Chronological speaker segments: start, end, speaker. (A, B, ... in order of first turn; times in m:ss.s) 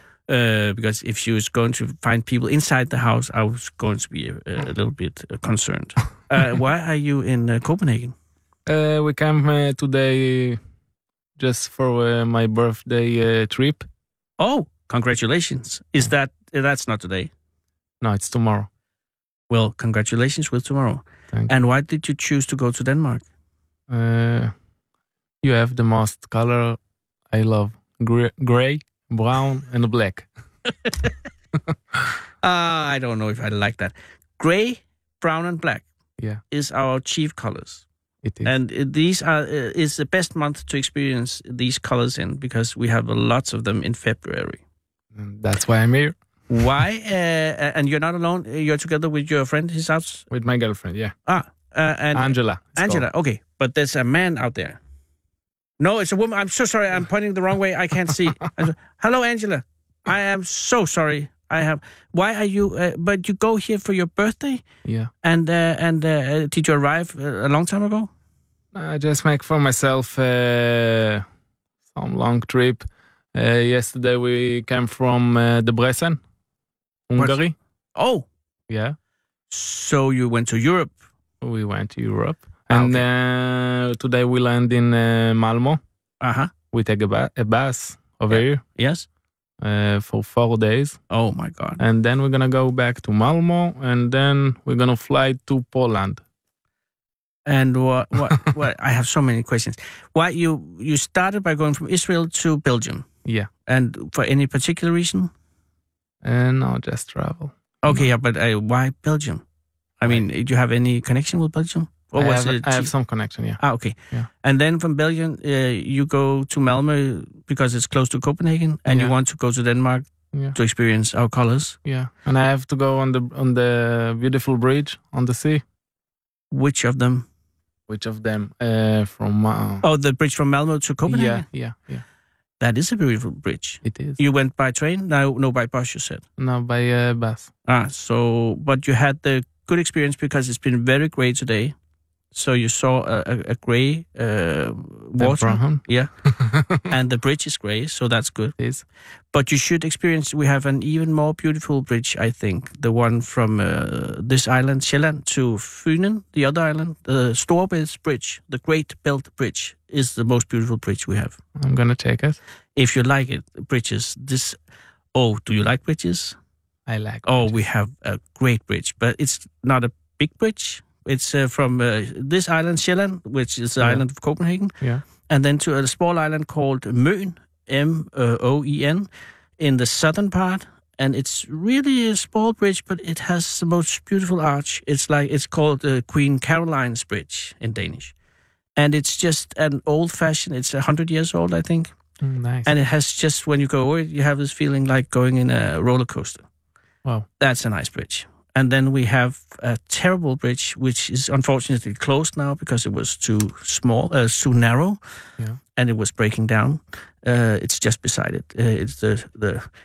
0:00.3-0:08.1 A
0:08.7-0:10.6 B
0:11.4-0:13.9 B
0:14.4-0:17.3 A
0:18.0-0:18.7 B
0:19.5-0:23.2 A
0:23.9-0:24.5 B
0:25.4-0:26.8 B
0:27.3-0:30.3 B
0:32.4-0:35.8 A
0:36.5-0:37.8 A
0:38.2-0:38.5 B
0:38.4-0:44.6 A
0:45.2-0:46.2 B
0:46.5-0:50.3 A
0:50.3-0:51.1 B
0:51.3-0:54.8 A
0:52.1-0:53.1 B
0:55.8-1:04.6 A
1:04.8-1:05.1 B
1:05.2-1:08.1 A
1:08.7-1:11.2 B
1:11.9-1:16.2 B
1:17.1-1:17.6 B
1:18.0-1:18.2 A
1:18.7-1:19.0 B
1:19.5-1:20.9 A
1:21.4-1:25.8 B
1:22.7-1:23.0 A
1:26.2-1:26.5 A
1:26.7-1:28.6 B
1:28.3-1:29.1 A
1:29.6-1:31.0 B
1:31.1-1:31.8 A
1:31.8-1:36.2 B
1:37.5-1:43.1 A
1:43.7-1:45.3 A
1:46.2-1:48.1 B
1:47.8-1:49.4 A
1:50.0-1:52.9 A
1:52.2-1:54.3 B
1:53.6-2:01.8 A
1:58.9-1:59.1 B
2:01.8-2:05.6 B
2:06.5-2:07.3 A
2:07.9-2:09.8 B
2:09.8-2:11.4 A
2:11.1-2:12.0 B
2:12.6-2:16.2 A
2:13.8-2:14.2 B
2:16.4-2:17.5 B
2:17.7-2:21.7 A
2:22.3-2:26.1 A
2:25.2-2:26.7 B
2:26.8-2:28.6 A
2:28.6-2:28.8 B
2:29.3-2:41.4 A
2:41.6-2:42.4 B
2:42.8-2:44.6 A
2:45.2-2:46.4 A
2:46.9-2:47.6 B
2:47.3-2:54.7 A
2:53.8-2:54.0 B
2:55.3-2:59.1 A
2:59.6-3:08.1 A
3:08.8-3:11.9 A
3:12.2-3:12.7 B
3:12.7-3:16.4 A
3:17.4-3:25.0 A
3:25.8-3:29.7 A